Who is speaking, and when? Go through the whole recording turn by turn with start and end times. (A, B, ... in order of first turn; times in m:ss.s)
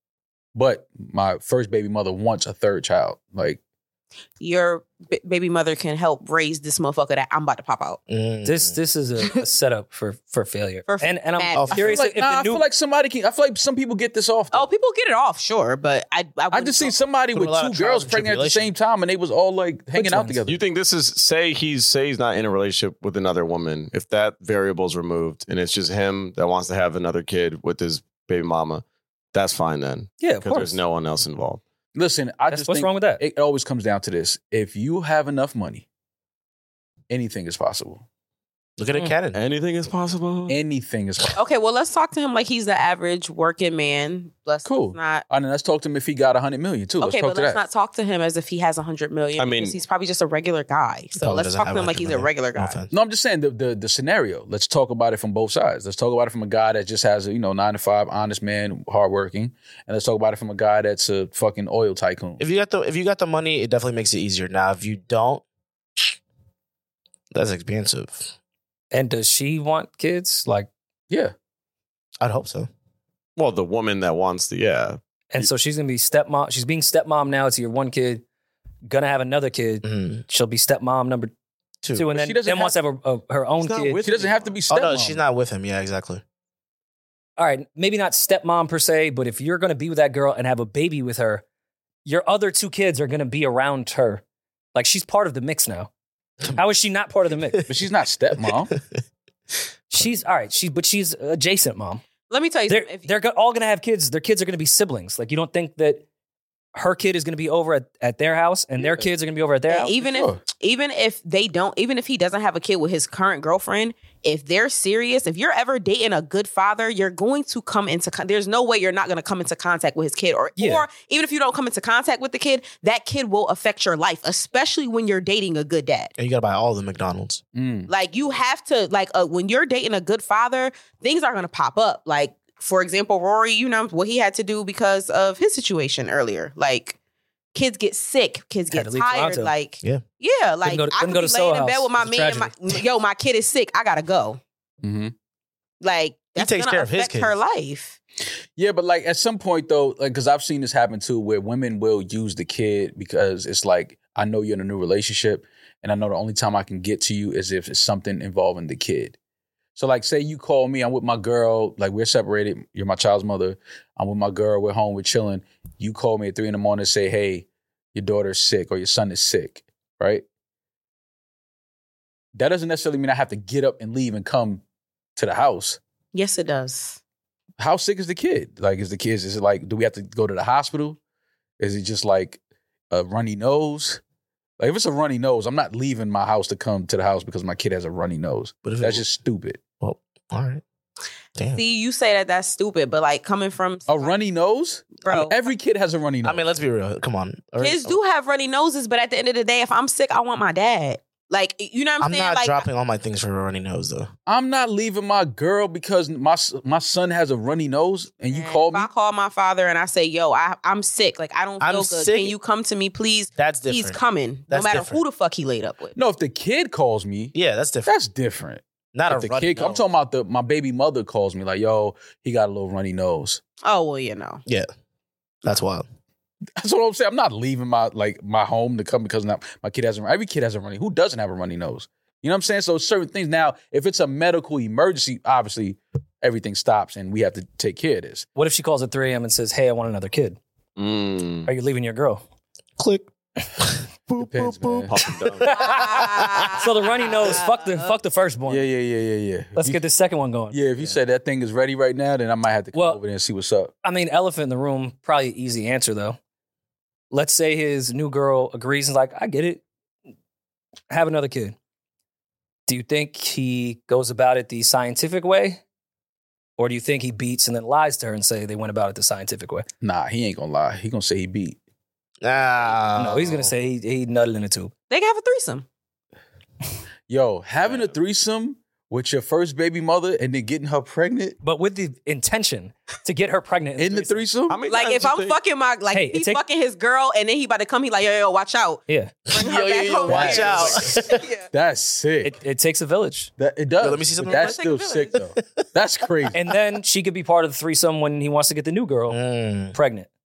0:00.5-0:03.6 A
0:04.4-0:08.0 B
0:08.1-0:08.8 C
0:08.4-0:12.6 D
0:10.9-0:12.0 B
0:11.5-0:11.9 C
0:11.7-0:14.7 A
0:14.5-0:16.9 B
0:16.5-0:20.6 A
0:17.3-0:18.7 C
0:19.9-0:20.4 D
0:20.4-0:31.6 E
0:30.2-0:30.8 D
0:31.9-0:35.8 A
0:32.5-0:33.2 D
0:37.1-0:38.0 A
0:38.8-0:39.4 C
0:39.3-0:40.6 E
0:40.5-0:41.4 A
0:41.4-0:45.2 B
0:44.6-0:47.6 A
0:47.0-0:52.8 B
0:49.4-0:49.8 E
0:51.2-0:52.9 C
0:52.9-1:02.4 A
1:02.4-1:05.4 C
1:07.3-1:08.3 C
1:08.9-1:10.7 D
1:12.2-1:12.7 C
1:13.4-1:15.5 E
1:15.3-1:18.2 D
1:18.8-1:21.3 D
1:19.8-1:20.2 C
1:21.8-1:22.1 C
1:21.9-1:24.0 D
1:22.1-1:22.8 A
1:23.6-1:24.5 E
1:24.0-1:25.2 A
1:24.7-1:26.2 C
1:27.4-1:31.4 D
1:32.0-1:34.2 D
1:34.7-1:35.9 D
1:36.5-1:37.7 D
1:37.7-1:38.7 A
1:38.4-1:39.0 C
1:39.9-1:42.0 D
1:42.3-1:43.1 B
1:42.7-1:46.0 D
1:46.7-1:49.9 D
1:49.7-2:06.1 B
1:50.0-1:50.4 A
2:00.6-2:00.8 D
2:06.2-2:07.4 C
2:07.5-2:07.9 A
2:07.9-2:17.0 B
2:17.5-2:24.4 B
2:18.7-2:19.5 D
2:20.6-2:22.5 D
2:24.8-2:25.1 A
2:25.8-2:28.0 B
2:26.4-2:27.4 C
2:28.6-2:39.2 A
2:39.8-2:50.2 A
2:52.3-2:54.6 A
2:55.2-2:55.8 A
2:56.1-2:57.0 B
2:57.6-3:01.0 A
3:01.6-3:02.4 A
3:02.9-3:04.0 A
3:04.6-3:09.6 A
3:08.6-3:09.0 C
3:09.8-3:10.6 C
3:11.4-3:11.6 C
3:11.5-3:14.2 B
3:13.9-3:16.4 A
3:15.0-3:15.4 B
3:16.2-3:18.0 C
3:17.6-3:22.7 B
3:22.0-3:24.1 C
3:24.3-3:28.9 A
3:28.3-3:35.9 B
3:31.6-3:32.4 C
3:33.4-3:35.0 C
3:35.9-3:43.4 A
3:37.3-3:37.9 C
3:38.9-3:39.8 C
3:43.6-3:44.4 B
3:45.4-3:45.8 C
3:46.6-3:58.2 A
3:58.4-4:00.4 D
4:00.8-4:01.5 E
4:01.4-4:02.2 D
4:02.8-4:06.6 C
4:04.2-4:04.9 A
4:04.9-4:05.6 E
4:05.4-4:08.6 D
4:05.6-4:07.9 B
4:08.5-4:09.8 A
4:09.6-4:10.9 D
4:10.5-4:13.7 A
4:12.7-4:13.0 D
4:13.8-4:16.2 D
4:17.1-4:19.6 D
4:20.9-4:21.6 D
4:22.7-4:25.6 D
4:26.6-4:29.6 D
4:29.8-4:31.6 A
4:32.2-4:33.5 C
4:33.0-4:34.7 D
4:34.9-4:35.6 B
4:37.1-4:41.4 A
4:41.4-4:44.2 D
4:43.8-4:44.6 A
4:44.5-4:45.4 E
4:44.7-4:51.5 B
4:45.9-4:46.4 D
4:48.9-4:49.1 D
4:49.3-4:51.2 C
4:50.1-4:52.4 A
4:52.2-4:53.3 D
4:53.4-4:56.4 A
4:53.8-4:54.6 C
4:54.2-4:55.3 B
4:56.3-4:59.2 D
4:59.1-4:59.8 C
4:59.7-5:00.1 D